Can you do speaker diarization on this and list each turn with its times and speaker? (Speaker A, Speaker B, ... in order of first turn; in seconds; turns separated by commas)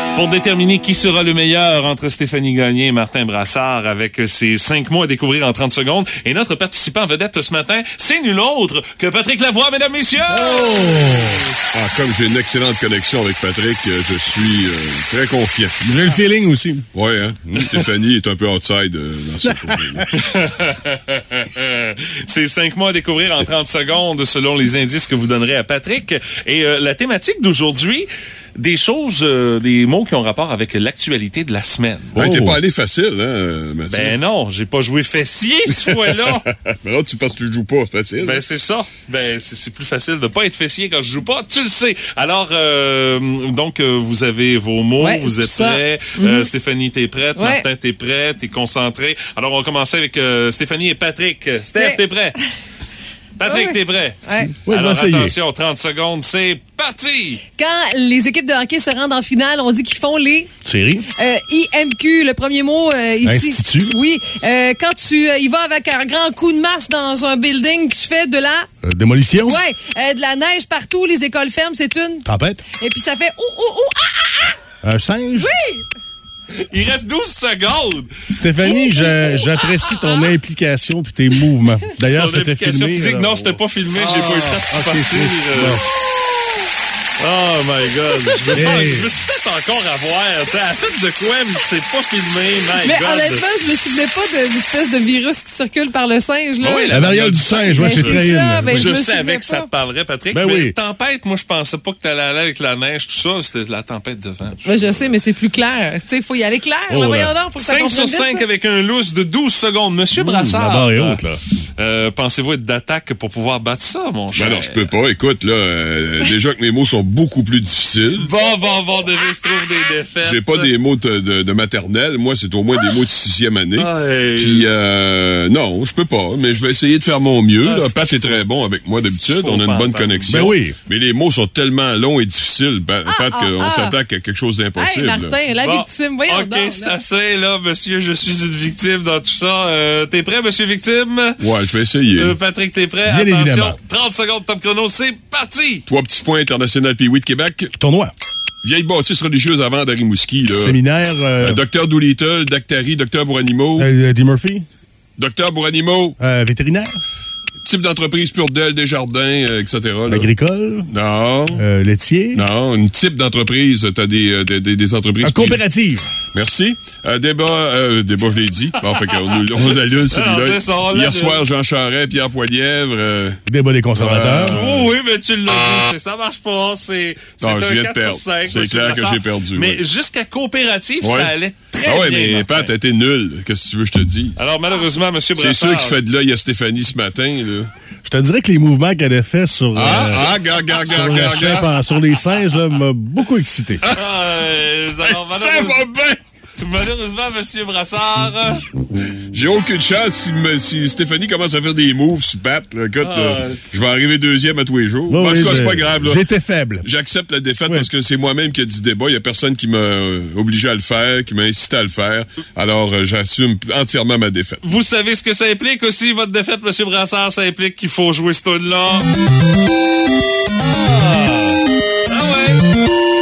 Speaker A: 0.1-11.4, Speaker B: 10.3-11.4, Speaker C: 11.7-16.1, Speaker B: 15.8-16.9, Speaker C: 16.9-20.1, Speaker B: 17.5-17.8, Speaker B: 19.4-20.0, Speaker A: 20.1-32.2, Speaker C: 32.1-34.1, Speaker B: 32.2-32.6, Speaker A: 33.9-36.5, Speaker C: 35.8-38.4, Speaker A: 38.2-52.4, Speaker D: 45.0-46.5, Speaker D: 47.4-47.6, Speaker D: 51.7-52.0, Speaker A: 53.4-57.4, Speaker D: 53.4-54.5, Speaker B: 54.6-55.4, Speaker D: 57.6-60.5, Speaker B: 60.6-61.0, Speaker D: 61.1-68.7, Speaker B: 63.2-63.9, Speaker B: 68.8-69.6, Speaker D: 69.4-72.2, Speaker B: 72.2-72.6, Speaker D: 72.8-74.5, Speaker B: 74.8-75.5, Speaker D: 75.3-75.8, Speaker A: 76.5-78.1, Speaker B: 78.3-85.8, Speaker D: 78.6-80.3, Speaker A: 82.0-85.8, Speaker A: 87.2-93.4, Speaker B: 88.5-89.1, Speaker D: 92.8-96.9, Speaker A: 96.6-105.1, Speaker B: 96.9-98.9, Speaker D: 97.8-99.7, Speaker B: 100.3-100.7, Speaker D: 104.6-108.4, Speaker B: 106.9-107.3, Speaker A: 107.6-111.2, Speaker B: 110.2-111.4, Speaker A: 111.8-114.9, Speaker C: 114.3-118.3, Speaker A: 118.2-120.7, Speaker C: 120.2-135.4, Speaker A: 123.8-124.8, Speaker A: 127.6-128.4, Speaker A: 129.1-130.6, Speaker B: 130.3-130.8, Speaker D: 133.1-133.9, Speaker D: 134.8-136.9, Speaker A: 135.6-141.4, Speaker C: 141.4-142.3, Speaker A: 142.1-145.8, Speaker B: 143.1-143.8, Speaker C: 145.9-147.7, Speaker B: 147.8-148.1, Speaker C: 148.6-150.8, Speaker B: 150.5-151.6, Speaker C: 151.4-153.9, Speaker B: 153.8-154.6, Speaker C: 155.2-156.2, Speaker B: 156.2-157.0, Speaker C: 157.6-160.3, Speaker B: 160.1-160.9, Speaker C: 160.9-161.6, Speaker B: 161.5-162.4, Speaker C: 162.3-165.6, Speaker B: 165.2-166.0, Speaker C: 166.3-173.4, Speaker A: 168.8-171.4, Speaker B: 173.4-174.6, Speaker C: 173.9-174.9, Speaker A: 174.4-182.7, Speaker C: 177.4-179.8, Speaker C: 181.0-184.4, Speaker A: 184.3-186.0, Speaker C: 185.3-187.7, Speaker B: 188.0-193.8, Speaker C: 189.7-191.8, Speaker C: 193.8-194.1, Speaker A: 193.9-195.8, Speaker C: 195.0-196.2, Speaker A: 196.6-198.6, Speaker C: 199.3-206.2, Speaker A: 203.0-203.8, Speaker B: 205.1-206.9, Speaker C: 206.8-214.6, Speaker A: 214.6-219.1, Speaker A: 222.1-222.6